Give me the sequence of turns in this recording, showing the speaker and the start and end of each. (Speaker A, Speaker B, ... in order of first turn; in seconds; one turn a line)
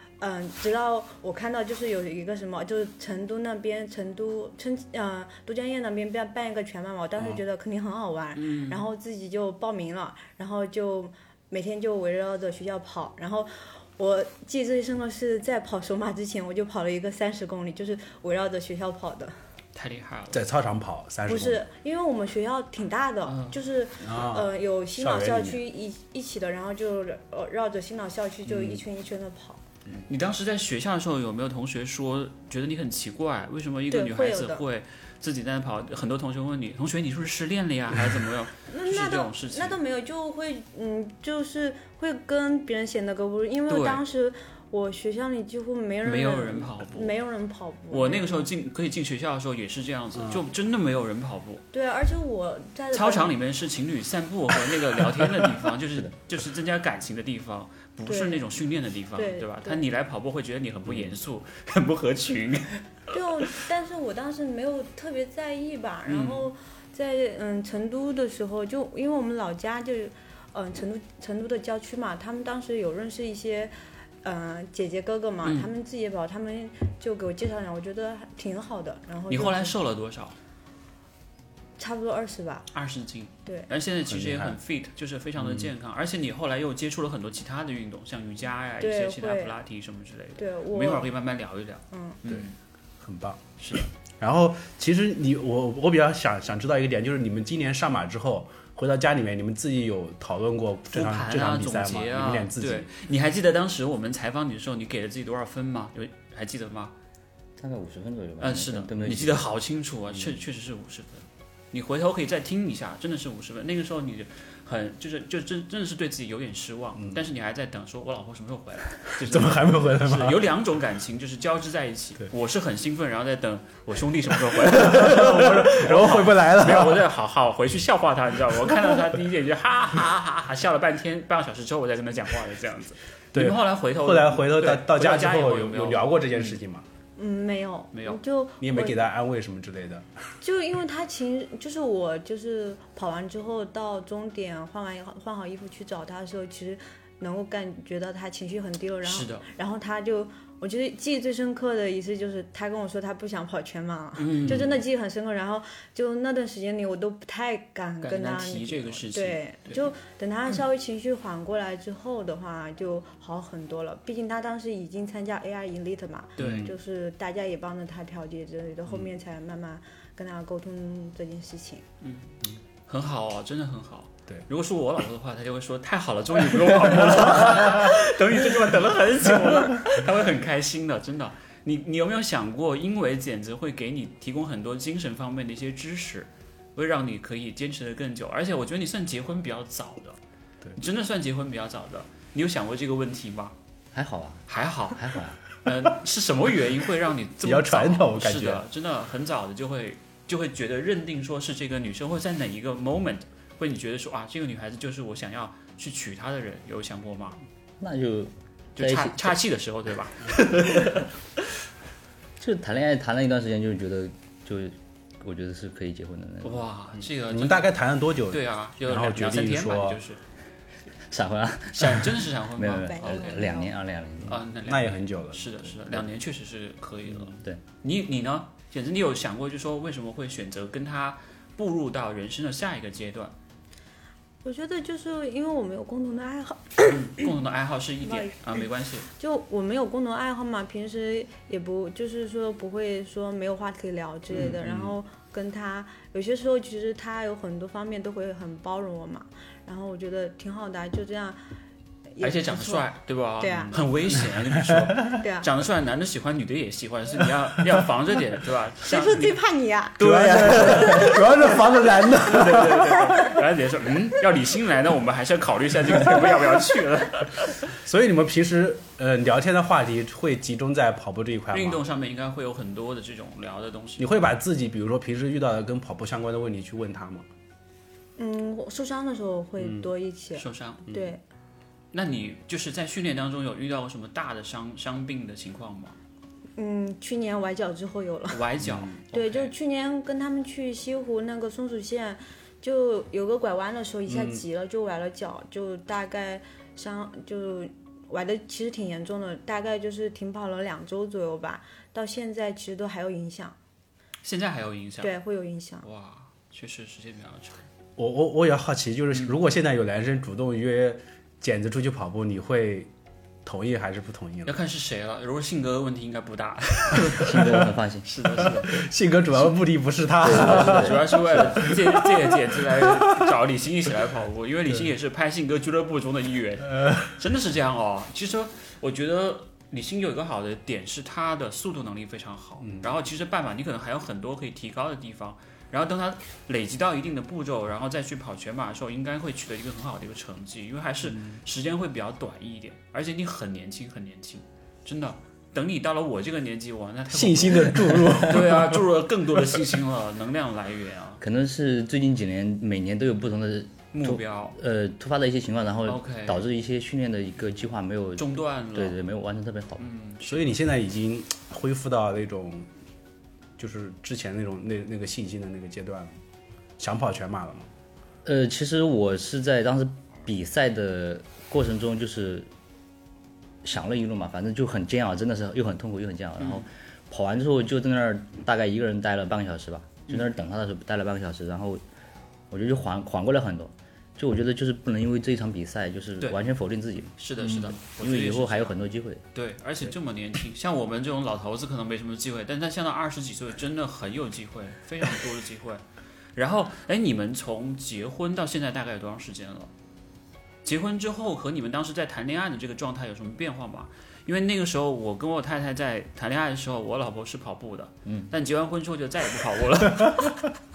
Speaker A: 0.2-19.3
Speaker B: 8.4-8.8
Speaker B: 19.7-20.4
Speaker C: 20.3-21.6
Speaker A: 21.3-29.6
Speaker B: 23.2-23.6
Speaker C: 24.0-25.6
Speaker C: 28.5-28.8
Speaker B: 30.1-39.8
Speaker A: 33.9-34.6
Speaker A: 38.7-48.5
Speaker B: 43.7-44.0
Speaker B: 46.0-47.2
Speaker B: 47.9-51.6
Speaker A: 51.7-53.4
Speaker B: 52.9-62.8
Speaker A: 58.1-58.5
Speaker A: 59.2-59.8
Speaker A: 63.1-73.7
Speaker B: 66.1-66.5
Speaker A: 74.2-79.8
Speaker B: 75.4-75.7
Speaker B: 79.3-80.3
Speaker A: 81.8-82.7
Speaker B: 82.7-92.5
Speaker C: 84.1-84.6
Speaker C: 85.4-85.7
Speaker A: 88.8-89.5
Speaker A: 90.4-91.1
Speaker A: 91.9-92.2
Speaker C: 93.0-102.9
Speaker B: 93.6-93.9
Speaker B: 100.9-106.9
Speaker D: 107.6-109.5
Speaker B: 108.4-136.6
Speaker C: 119.3-120.5
Speaker C: 124.5-127.1
Speaker C: 133.3-136.8
Speaker A: 137.2-139.0
Speaker B: 137.9-138.2
Speaker C: 138.6-140.1
Speaker A: 140.4-171.8
Speaker B: 149.1-149.4
Speaker B: 154.2-154.8
Speaker B: 158.0-159.8
Speaker B: 166.4-166.7
Speaker C: 166.4-166.8
Speaker B: 172.0-172.3
Speaker B: 172.9-190.2
Speaker B: 190.8-193.6
Speaker D: 193.9-194.4
Speaker B: 194.5-207.4
Speaker D: 194.9-195.4
Speaker C: 197.4-198.6
Speaker D: 207.8-209.4
Speaker B: 208.8-211.1
Speaker D: 212.4-216.6
Speaker B: 216.4-217.7
Speaker C: 217.3-220.0
Speaker B: 218.3-220.2
Speaker D: 221.1-224.4
Speaker B: 221.7-223.5
Speaker A: 222.8-223.7
Speaker B: 224.3-233.3
Speaker C: 224.7-225.4
Speaker A: 234.4-237.0
Speaker B: 236.8-239.1
Speaker A: 238.1-251.4
Speaker C: 244.3-244.9
Speaker A: 252.2-252.9
Speaker B: 252.2-259.4
Speaker A: 253.4-253.8
Speaker C: 253.5-254.9
Speaker A: 255.1-255.5
Speaker A: 258.9-261.6
Speaker C: 260.0-263.4
Speaker B: 260.0-261.6
Speaker B: 262.1-267.6
Speaker C: 267.8-271.8
Speaker B: 271.5-274.1
Speaker C: 274.0-277.2
Speaker A: 278.2-281.2
Speaker B: 280.4-280.9
Speaker B: 281.9-286.0
Speaker A: 286.6-288.4
Speaker B: 288.3-289.5
Speaker C: 288.6-288.9
Speaker A: 289.1-303.6
Speaker C: 294.1-294.4
Speaker B: 304.2-305.2
Speaker A: 305.0-305.9
Speaker B: 305.8-307.6
Speaker C: 308.0-312.9
Speaker B: 309.1-309.4
Speaker C: 313.4-314.6
Speaker B: 314.4-319.5
Speaker C: 316.9-317.6
Speaker D: 317.1-318.1
Speaker C: 318.3-323.3
Speaker D: 320.2-321.4
Speaker B: 320.2-351.2
Speaker C: 332.6-332.9
Speaker C: 347.1-348.8
Speaker D: 351.2-359.9
Speaker B: 353.9-354.6
Speaker B: 355.9-356.4
Speaker B: 358.2-359.0
Speaker B: 359.8-360.6
Speaker C: 360.2-362.7
Speaker C: 363.6-366.2
Speaker C: 366.8-367.7
Speaker D: 368.2-372.5
Speaker D: 373.6-381.8
Speaker B: 376.4-376.7
Speaker D: 382.5-389.2
Speaker B: 387.2-388.8
Speaker B: 389.3-395.8
Speaker B: 396.4-399.7
Speaker B: 400.6-410.6